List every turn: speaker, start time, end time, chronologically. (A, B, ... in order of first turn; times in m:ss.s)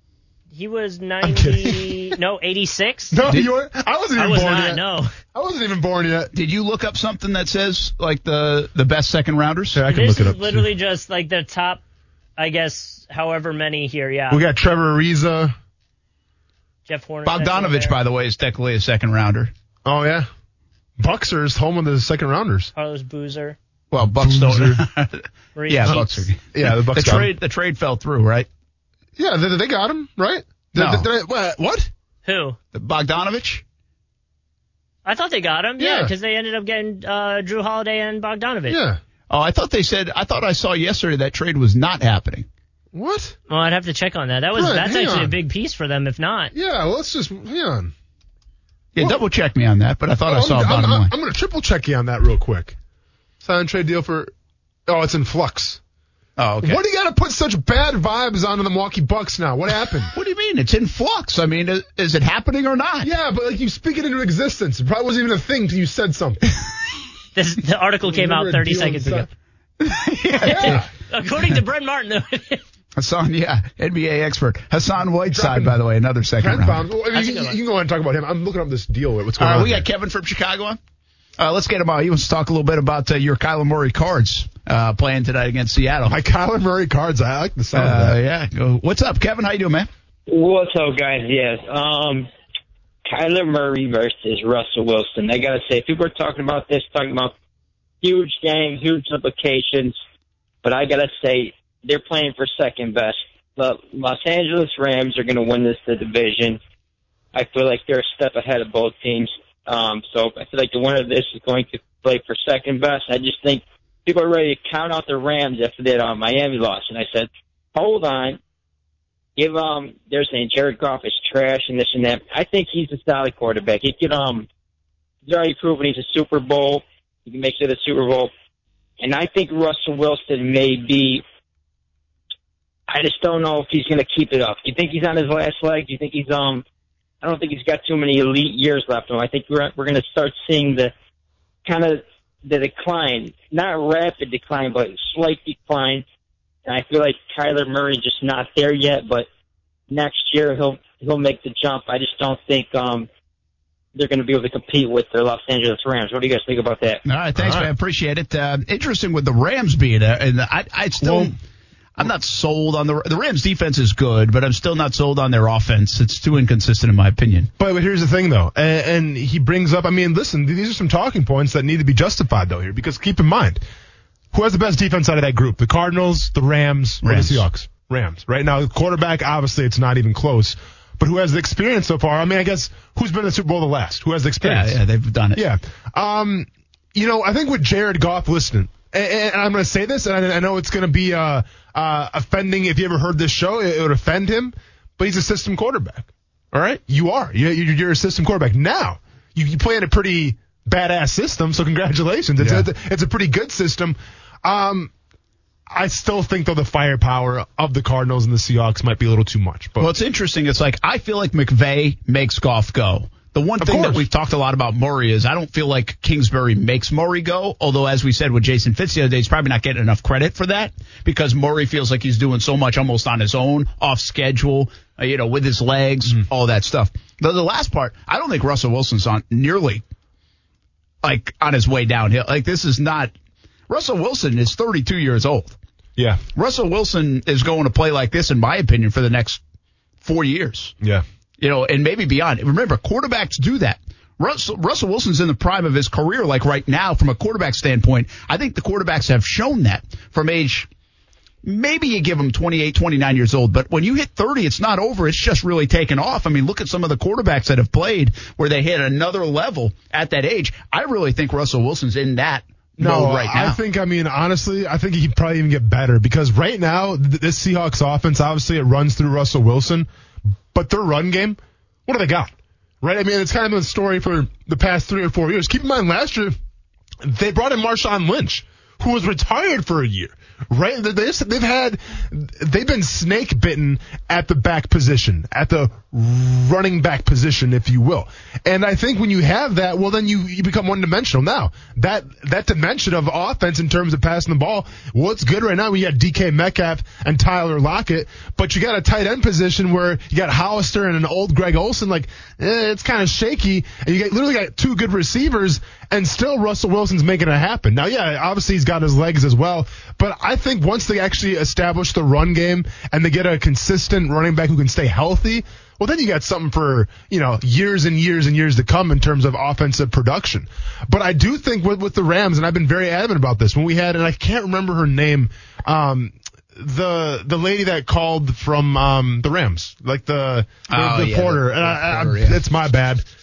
0:00.5-0:03.2 A
0:01.2-0:02.2 B
0:03.1-0:04.8 B
0:04.2-0:05.1 A
0:05.3-0:06.3 B
0:06.3-0:09.8 C
0:09.7-0:10.7 B
0:09.9-0:11.8 A
0:12.4-0:14.4 A
0:14.3-0:15.6 B
0:16.9-0:18.0 A
0:17.2-0:19.5 C
0:19.8-0:20.3 B
0:21.0-0:22.7 B
0:22.8-0:23.6 A
0:23.9-0:28.5 C
0:24.2-0:24.8 B
0:25.6-0:26.3 A
0:26.5-0:27.3 B
0:29.2-0:31.9 B
0:30.8-0:31.1 C
0:32.2-0:32.6 A
0:32.7-0:33.6 C
0:35.0-0:38.8 A
0:35.8-0:36.1 B
0:38.7-0:39.0 B
0:39.3-0:42.5 C
0:42.9-0:43.4 B
0:43.5-0:46.5 A
0:44.5-0:45.4 B
0:46.5-0:47.9 B
0:49.0-0:51.1 C
0:50.3-0:52.8 B
0:53.4-0:54.3 B
0:54.9-0:55.8 B
0:56.4-0:56.8 C
0:56.6-1:00.1 B
1:00.1-1:03.1 C
1:03.0-1:06.4 B
1:07.4-1:09.3 A
1:08.1-1:09.3 B
1:09.8-1:10.8 C
1:10.4-1:12.6 A
1:10.4-1:10.9 B
1:13.0-1:16.8 C
1:15.3-1:15.8 B
1:16.4-1:19.9 B
1:17.1-1:17.6 A
1:19.4-1:20.8 C
1:21.4-1:26.2 C
1:26.1-1:28.2 B
1:27.7-1:29.9 C
1:30.3-1:32.3 D
1:33.1-1:37.3 D
1:38.0-1:40.0 D
1:40.6-1:46.6 D
1:47.3-1:58.4 D
1:59.4-2:04.5 D
2:05.3-2:08.3 D
2:09.0-2:11.2 D
2:12.9-2:16.6 D
2:17.2-2:20.9 D
2:21.6-2:26.0 D
2:26.7-2:29.3 D
2:29.9-2:33.1 D
2:34.0-2:37.0 D
2:37.0-2:41.4 C
2:37.4-2:37.7 B
2:41.0-2:41.3 B
2:42.0-2:47.5 C
2:47.6-2:53.6 B
2:54.3-3:04.8 B
2:57.0-2:57.4 C
3:04.4-3:05.4 C
3:05.4-3:24.9 B
3:22.4-3:22.7 C
3:25.7-3:29.9 B
3:29.8-3:49.8 C
3:33.6-3:34.0 B
3:51.0-3:53.1 C
3:53.7-3:55.6 C
3:56.0-3:56.2 B
3:56.4-3:59.4 C
4:00.0-4:00.8 C
4:01.4-4:10.7 C
4:11.4-4:23.6 C
4:22.8-4:29.9 B
4:30.5-4:36.4 B
4:37.0-5:33.0 B
5:30.7-5:32.4 C